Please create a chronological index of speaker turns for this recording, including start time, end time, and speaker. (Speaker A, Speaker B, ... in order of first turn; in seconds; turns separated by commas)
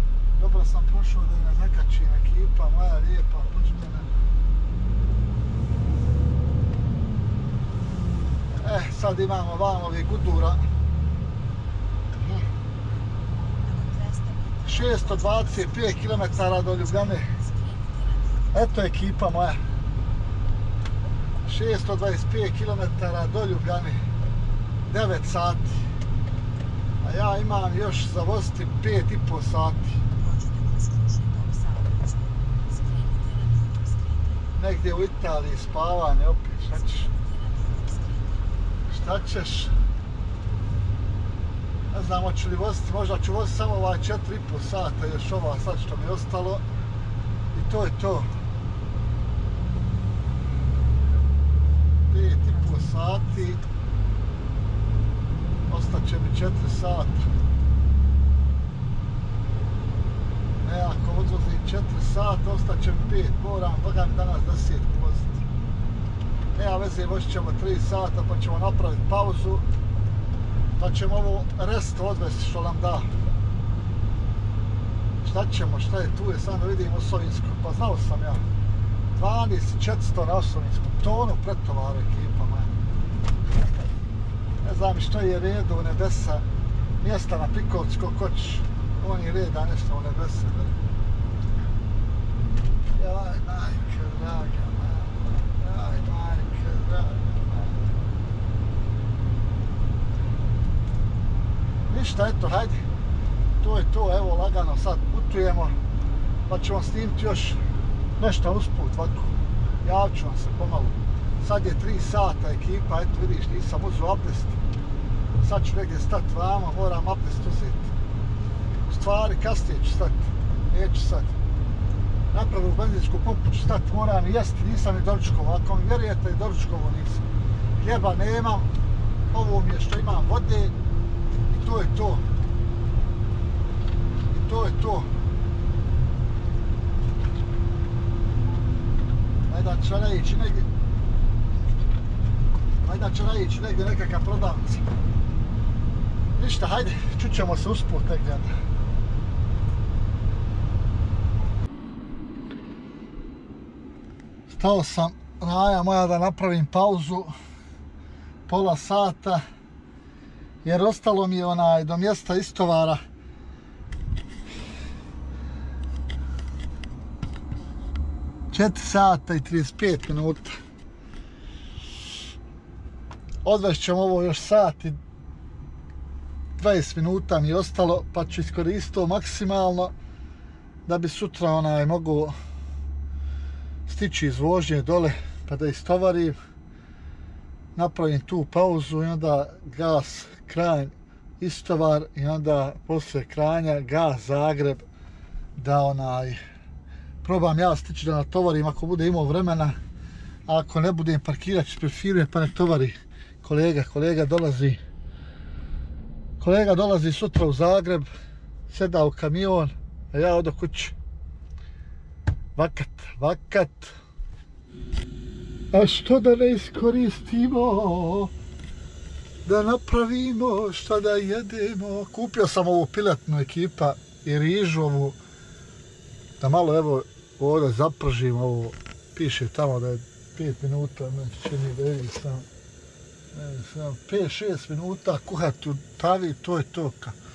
Speaker A: 0.4-4.1, Speaker A: 8.6-10.6, Speaker A: 12.2-12.4, Speaker B: 13.5-18.8, Speaker A: 14.6-17.3, Speaker A: 18.5-19.6, Speaker A: 21.4-24.1, Speaker A: 24.9-25.8, Speaker A: 27.0-30.0, Speaker B: 30.1-34.6, Speaker A: 34.5-37.1, Speaker B: 36.7-38.6, Speaker A: 38.9-39.7, Speaker A: 41.9-46.6, Speaker A: 47.5-48.3, Speaker A: 52.1-53.6, Speaker B: 52.5-53.5, Speaker A: 55.7-57.3, Speaker A: 60.6-65.4, Speaker A: 66.5-69.7, Speaker A: 70.8-73.1, Speaker A: 75.2-78.4, Speaker A: 79.1-82.7, Speaker A: 84.6-86.4, Speaker A: 87.0-90.7, Speaker A: 92.9-97.8, Speaker A: 101.9-102.8, Speaker A: 103.6-105.8, Speaker A: 106.5-107.6, Speaker A: 108.2-114.6, Speaker A: 115.4-117.9, Speaker A: 118.9-121.3, Speaker A: 122.3-127.2, Speaker A: 127.8-128.7, Speaker A: 129.3-130.7, Speaker A: 131.5-132.3, Speaker A: 134.3-135.1, Speaker A: 139.5-140.7, Speaker A: 142.8-144.8, Speaker A: 146.3-148.6, Speaker A: 154.5-157.3, Speaker A: 158.5-159.4, Speaker A: 160.6-163.0, Speaker A: 168.5-170.5, Speaker A: 173.4-175.0, Speaker A: 176.6-179.9, Speaker A: 180.8-182.3, Speaker A: 183.8-186.3, Speaker A: 187.7-194.8, Speaker A: 195.6-196.4, Speaker A: 197.2-199.8, Speaker A: 200.5-204.8, Speaker A: 206.4-208.1, Speaker A: 208.7-210.9, Speaker A: 212.6-213.9, Speaker A: 215.7-218.3, Speaker A: 219.4-225.2, Speaker A: 226.4-232.4, Speaker A: 233.3-237.2